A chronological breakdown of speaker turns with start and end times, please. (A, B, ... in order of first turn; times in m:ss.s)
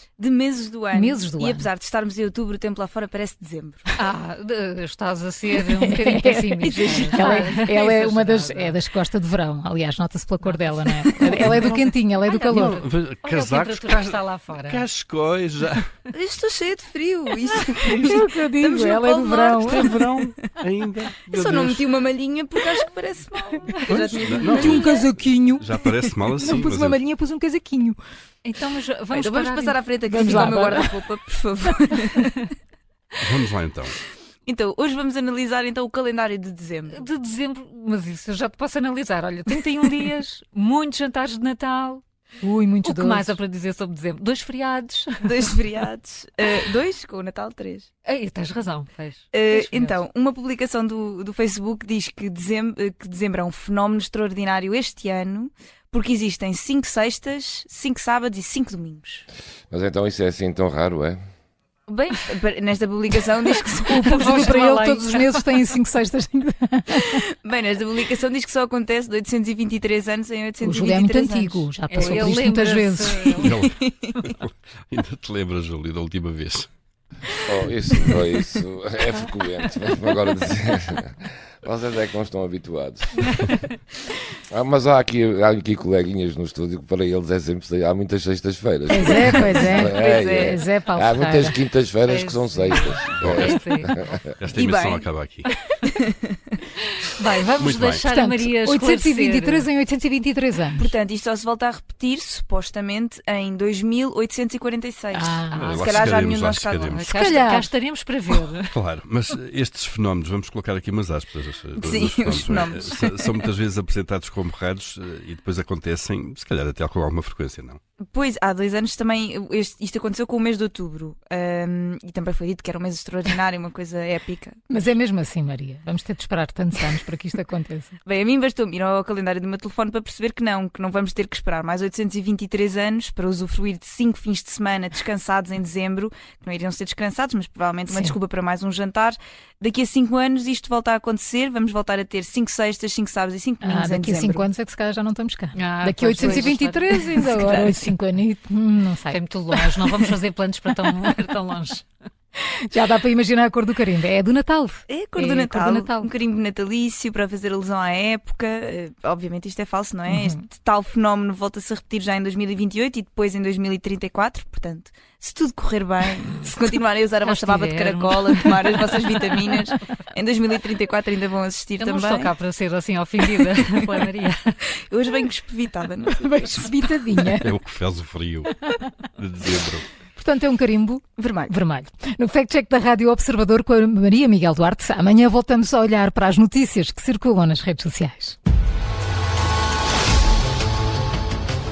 0:00.2-0:03.9 A
0:00.9-0:01.7 B
0:04.0-0:08.8 C
0:05.7-0:12.8 B
0:06.7-0:07.5 A
0:10.4-0:11.7 C
0:11.2-0:11.5 A
0:11.4-0:12.0 D
0:12.2-0:14.9 C
0:12.5-0:15.8 D
0:16.1-0:20.5 A
0:17.7-0:20.0 B
0:19.9-0:21.8 D
0:21.3-0:25.1 A
0:23.9-0:25.0 D
0:24.3-0:25.8 B
0:25.6-0:27.0 D
0:25.8-0:26.1 A
0:26.4-0:28.0 B
0:28.4-0:30.9 C
0:29.1-0:32.5 A
0:30.1-0:31.1 B
0:33.3-0:34.0 D
0:34.5-0:37.0 A
0:36.9-0:42.0 C
0:42.4-0:43.4 B
0:42.8-0:45.5 C
0:45.2-0:47.9 A
0:48.0-0:50.0 C
0:49.3-0:59.2 A
0:59.7-1:01.2 E
1:01.9-1:04.6 A
1:03.9-1:07.2 B
1:04.0-1:05.4 C
1:07.0-1:12.4 A
1:10.6-1:13.4 B
1:11.9-1:13.6 C
1:13.4-1:14.3 A
1:14.4-1:16.7 D
1:17.5-1:23.4 E
1:24.5-1:34.2 E
1:28.9-1:31.6 B
1:29.1-1:30.6 A
1:32.0-1:34.2 C
1:34.5-1:35.4 D
1:34.5-1:35.1 A
1:35.8-1:36.6 A
1:37.2-1:39.7 C
1:38.1-1:40.9 B
1:40.8-1:47.1 A
1:45.1-1:45.7 B
1:45.5-1:46.0 C
1:45.9-1:47.0 D
1:46.8-1:48.7 C
1:47.1-1:47.7 B
1:48.8-1:57.8 D
1:51.7-1:53.5 A
1:58.1-2:04.6 A
2:04.7-2:07.9 B
2:08.0-2:24.5 A
2:17.9-2:18.2 B
2:23.6-2:29.2 B
2:25.6-2:27.6 C
2:26.2-2:27.9 A
2:29.1-2:31.9 C
2:32.7-2:36.1 B
2:34.9-2:52.3 A
2:40.1-2:40.4 B
2:47.2-2:49.1 C
2:51.8-2:54.6 C
2:54.7-2:56.9 A
2:56.1-2:57.5 B
2:57.5-2:58.5 D
2:59.2-2:59.8 D
3:00.2-3:08.4 B
3:01.2-3:01.5 A